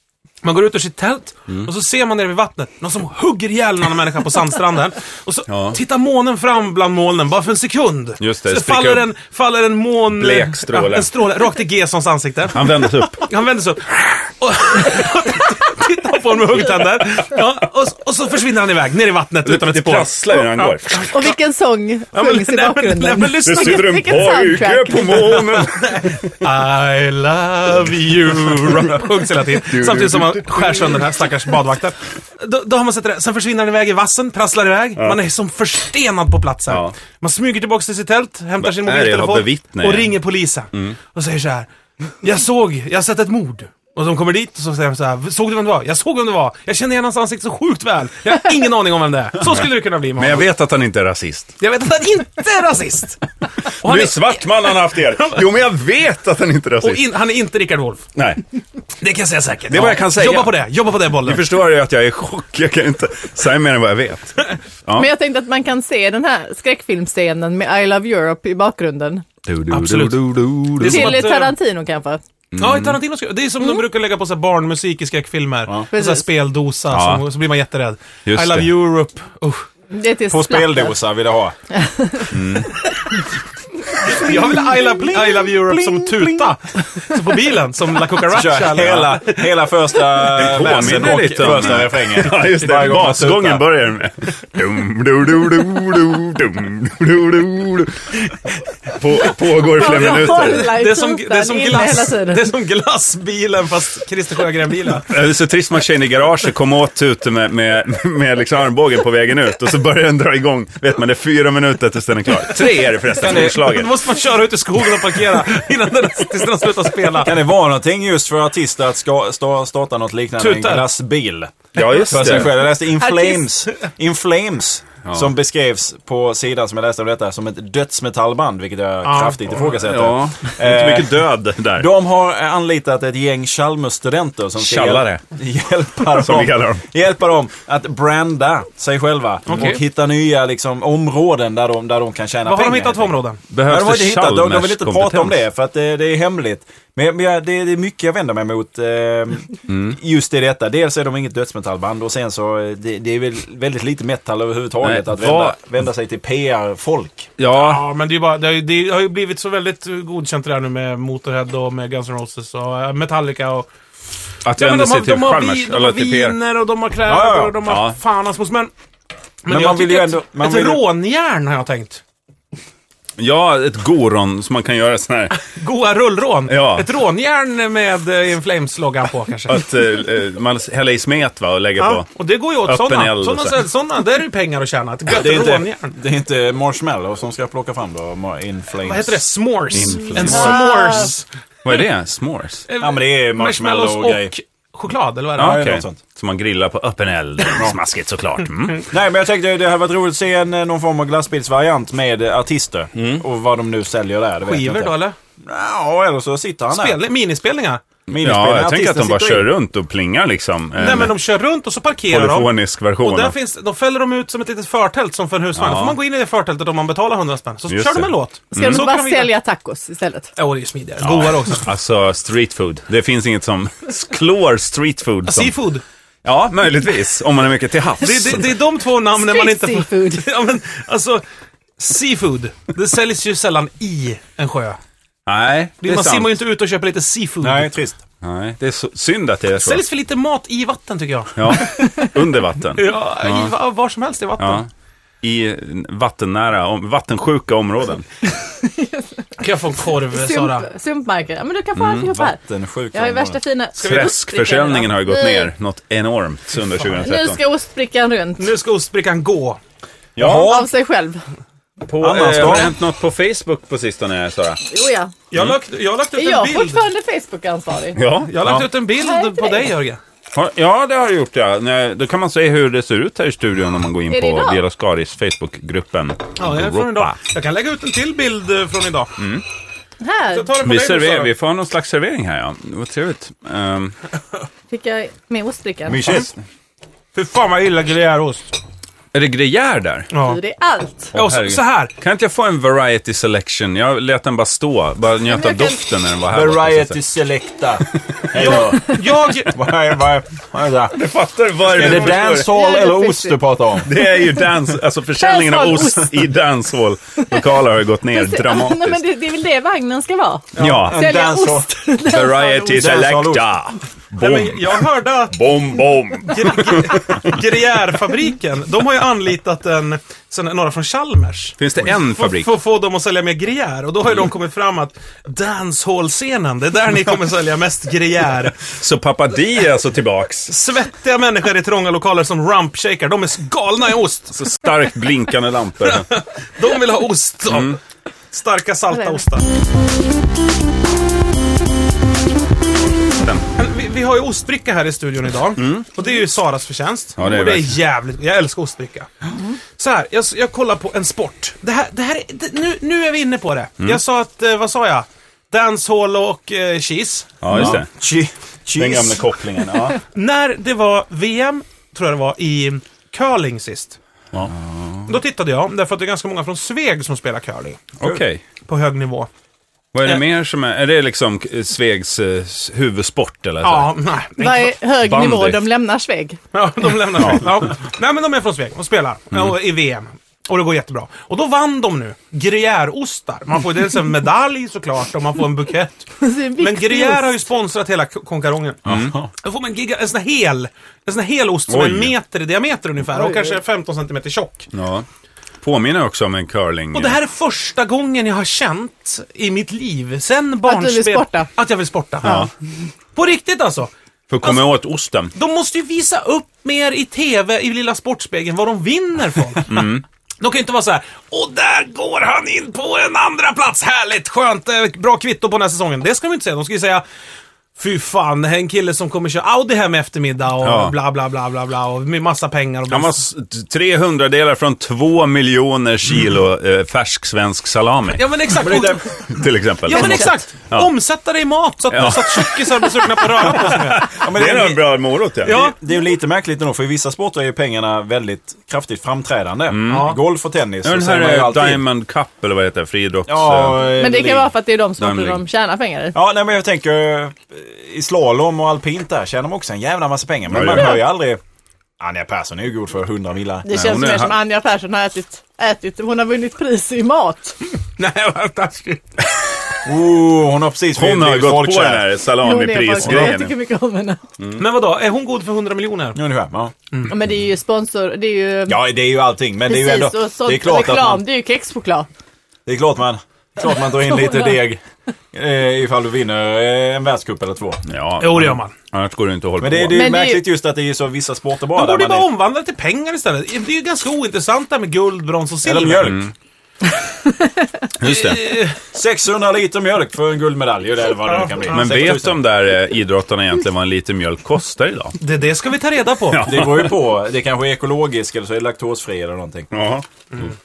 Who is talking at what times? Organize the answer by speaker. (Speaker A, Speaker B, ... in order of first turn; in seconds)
Speaker A: 0.4-21.4, 22.1-24.0, 25.7-41.7, 42.2-50.5, 51.6-55.4, 56.8-58.0, 59.0-61.4, 69.7-71.5, 72.6-79.6, 84.0-89.5, 100.3-105.1, 113.1-117.4, 120.4-120.8, 129.0-129.7, 139.5-139.8, 142.4-143.4, 157.5-163.7, 164.5-168.7, 169.4-172.0, 175.4-179.6, 181.8-186.0, 188.8-191.2, 192.7-195.7, 204.4-205.2, 206.7-207.8, 210.8-219.3, 220.4-221.7, 225.2-225.8, 228.0-231.2, 231.8-234.8, 235.8-237.7, 239.6-241.8, 242.8-244.6, 249.4-250.7, 253.8-254.1, 258.4-259.6, 265.3-266.8, 268.2-270.0, 276.4-279.1, 280.3-281.3, 287.1-288.5, 290.1-290.4, 291.1-291.9, 298.3-299.5, 314.2-315.4, 316.3-328.6, 330.5-334.4, 335.8-337.8, 338.3-339.5, 343.6-349.1, 349.8-357.7, 360.1-364.0, 365.1-367.8, 368.6-369.3, 373.6-374.7, 376.5-388.8, 389.4-394.7, 396.9-402.4, 403.1-403.9, 405.3-417.0, 417.8-423.2, 428.1-429.0, 429.9-434.1, 435.4-435.8, 439.9-440.2, 458.0-459.0, 464.6-466.2, 478.2-478.7, 481.7-486.2, 488.0-488.8, 491.2-491.9, 495.2-496.5
Speaker B: 5.5-5.8, 8.2-9.1, 10.1-11.1, 12.5-13.3, 19.4-21.3, 23.4-26.4, 28.4-30.9, 36.7-36.9, 38.6-40.1, 50.1-51.5, 53.8-57.1, 58.1-58.4, 59.7-60.6, 61.2-65.1, 69.4-71.2, 72.5-73.0, 76.9-77.2, 78.2-78.7, 82.3-82.7, 90.3-100.7, 105.1-114.0, 121.7-122.6, 125.0-125.3, 129.6-131.9, 134.6-135.2, 136.1-136.8, 143.5-145.4, 149.7-149.9, 154.8-155.6, 157.4-157.8, 164.4-166.4, 167.6-168.0, 173.2-175.4, 176.5-176.9, 179.5-182.1, 182.6-183.5, 189.7-190.9, 191.6-192.6, 195.4-198.9, 202.9-203.2, 208.1-211.2, 212.1-213.3, 215.6-216.0, 217.7-218.8, 221.0-225.5, 226.2-228.5, 235.3-236.4, 238.2-239.8, 241.3-243.5, 244.4-244.7, 245.2-248.1, 251.8-252.0, 253.8-257.4, 260.1-260.6, 261.9-264.6, 267.9-268.7, 270.3-277.2, 279.2-279.4, 280.6-283.9, 289.1-290.1, 291.1-297.0, 300.9-302.5, 303.8-309.0, 310.6-311.0, 312.0-317.4, 321.6-322.5, 328.6-330.5, 334.3-336.1, 337.5-337.8, 343.2-343.4, 345.6-345.9, 347.2-347.8, 357.4-357.9, 358.8-360.0, 368.0-368.4, 369.9-373.9, 375.0-375.6, 388.9-389.1, 391.7-392.1, 394.7-395.1, 395.6-397.2, 402.2-402.5, 404.3-405.3, 409.7-410.0, 420.6-420.9, 422.9-428.7, 429.3-430.9, 431.9-435.6, 439.7-440.2, 440.8-443.9, 445.0-445.4, 450.5-451.0, 453.7-454.4, 460.9-463.5, 477.9-480.1, 486.0-486.3, 488.0-488.5, 491.7-495.2, 496.3-497.0, 499.7-500.4
Speaker C: 21.1-25.6, 65.0-69.2, 70.8-72.2, 75.9-76.2, 79.9-81.0, 81.7-82.4, 84.1-84.8, 99.7-102.5, 122.8-123.5, 190.1-191.1, 218.5-220.3, 229.2-230.2, 248.5-249.3, 250.1-252.4, 252.9-255.5, 257.0-258.5, 260.2-261.2, 264.7-265.1, 266.2-268.0, 268.9-269.7, 274.1-274.6, 280.0-280.6, 284.7-286.2, 290.2-291.1, 295.2-295.8, 301.8-303.4, 304.0-304.3, 305.2-306.3, 308.1-313.0, 374.4-376.4, 386.2-387.3, 393.2-393.5, 400.6-401.5, 429.9-430.3, 443.8-446.1, 453.6-457.6, 462.4-464.2, 467.1-468.8, 469.6-472.1, 473.9-474.5, 479.9-480.5
Speaker D: 80.3-81.5, 84.4-86.5, 88.3-93.6, 113.2-113.5, 117.2-157.3, 167.1-167.6, 169.5-170.8, 185.1-189.2, 192.8-194.3, 195.4-196.0, 198.8-207.0, 208.1-209.5, 237.4-238.0, 252.0-253.4, 260.1-260.7, 262.0-262.8, 285.9-286.3, 296.3-301.0, 301.6-303.9, 310.6-311.7, 312.7-313.5, 357.5-359.3, 388.8-389.3, 428.6-429.0, 434.0-434.8, 435.4-441.8, 443.3-444.5, 446.1-451.4, 452.0-453.7, 459.8-462.1, 463.0-463.4, 466.1-466.7, 468.7-471.2, 472.6-474.8, 475.3-477.8, 479.6-482.3, 485.6-486.2, 488.9-492.4, 496.4-499.7